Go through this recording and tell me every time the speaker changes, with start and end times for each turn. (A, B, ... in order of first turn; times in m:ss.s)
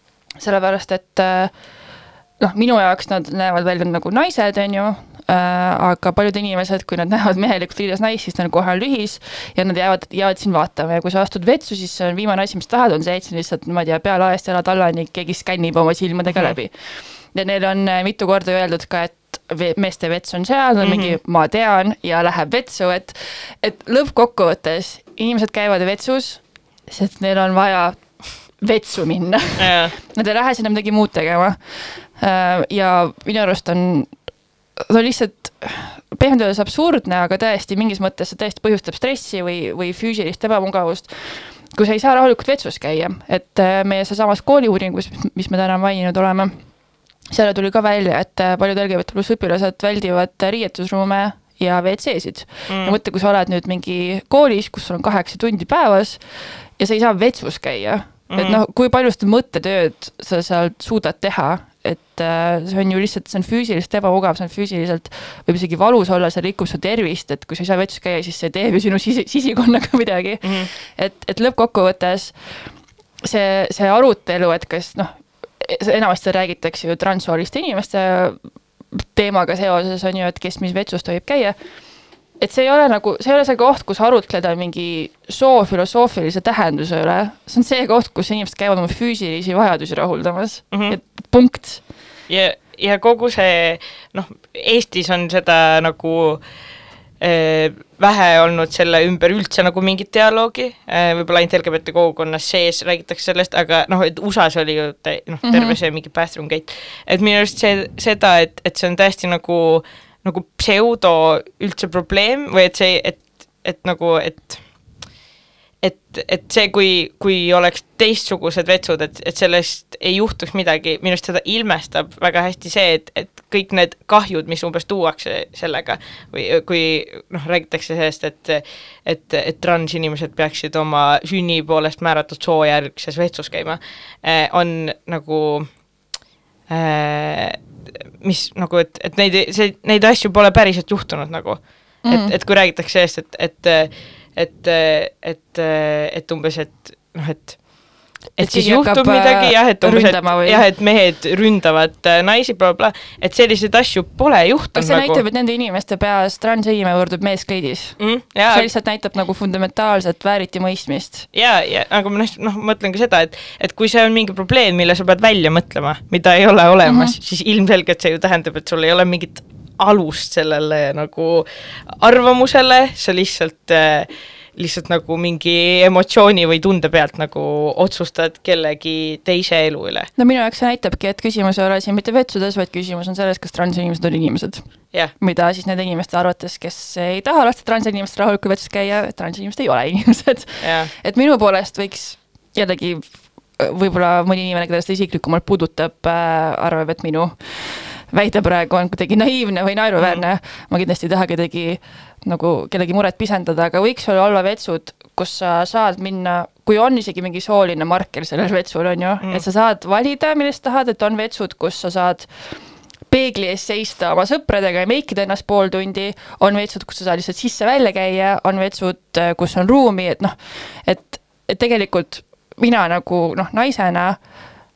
0:00.4-0:01.5 A
0:02.4-0:34.1 A
0:20.8-0:21.2 B
0:29.6-0:30.0 B
0:34.8-0:46.6 A
0:47.3-1:12.7 A
0:52.7-0:53.0 B
0:58.3-0:58.6 B
1:10.4-1:10.7 B
1:13.2-1:18.4 A
1:18.9-1:21.6 A
1:22.4-1:31.8 A
1:32.3-1:36.4 B
1:37.2-1:54.6 B
1:45.4-1:45.8 A
1:55.8-2:15.7 B
2:16.7-2:17.6 B
2:18.2-2:27.6 B
2:22.1-2:22.3 A
2:28.4-2:35.2 B
2:28.4-2:30.6 A
2:34.8-2:38.0 A
2:38.0-2:38.7 B
2:38.5-2:41.3 A
2:41.3-3:00.1 B
2:46.8-2:47.1 A
3:00.2-3:04.6 A
3:05.2-3:13.0 A
3:10.6-3:10.9 B
3:13.6-3:32.6 A
3:33.1-3:44.2 A